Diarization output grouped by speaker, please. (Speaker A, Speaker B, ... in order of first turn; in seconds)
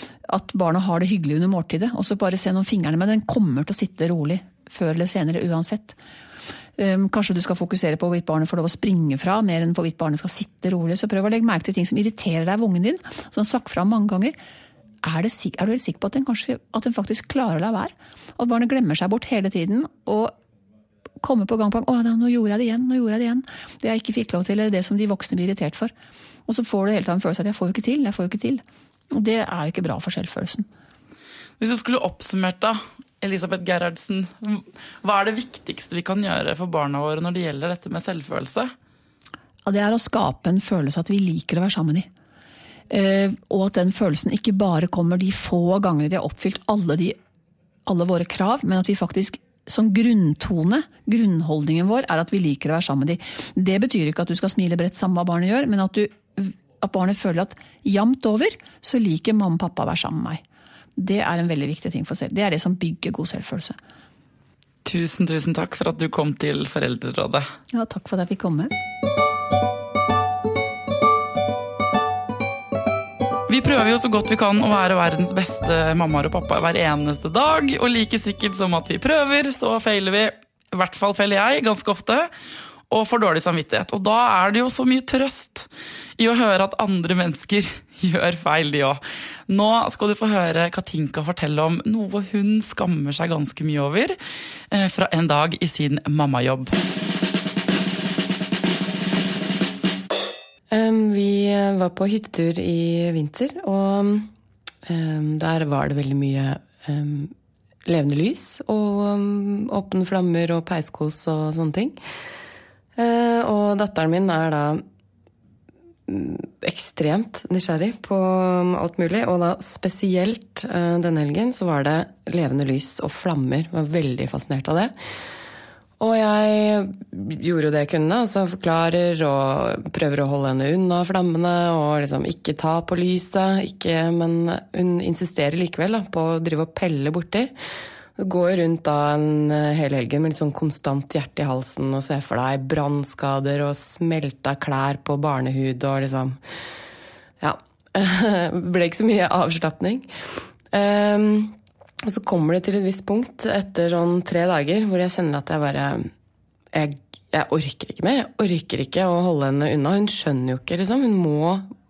Speaker A: 0.2-6.0, 6.8-14.3, 15.0-20.3, 21.2-25.9, 26.5-30.7, 39.6-42.1, 42.9-47.2, 47.9-60.4, 61.0-63.8, 67.7-68.7
Speaker B: 31.6-38.7, 64.8-67.5, 73.5-82.3, 82.9-94.2, 94.7-96.7
Speaker C: 100.7-104.3, 104.8-107.3, 107.8-112.0, 113.0-114.8, 116.1-124.9, 126.0-137.5, 138.2-146.4, 147.4-151.5, 152.1-156.1, 156.7-161.7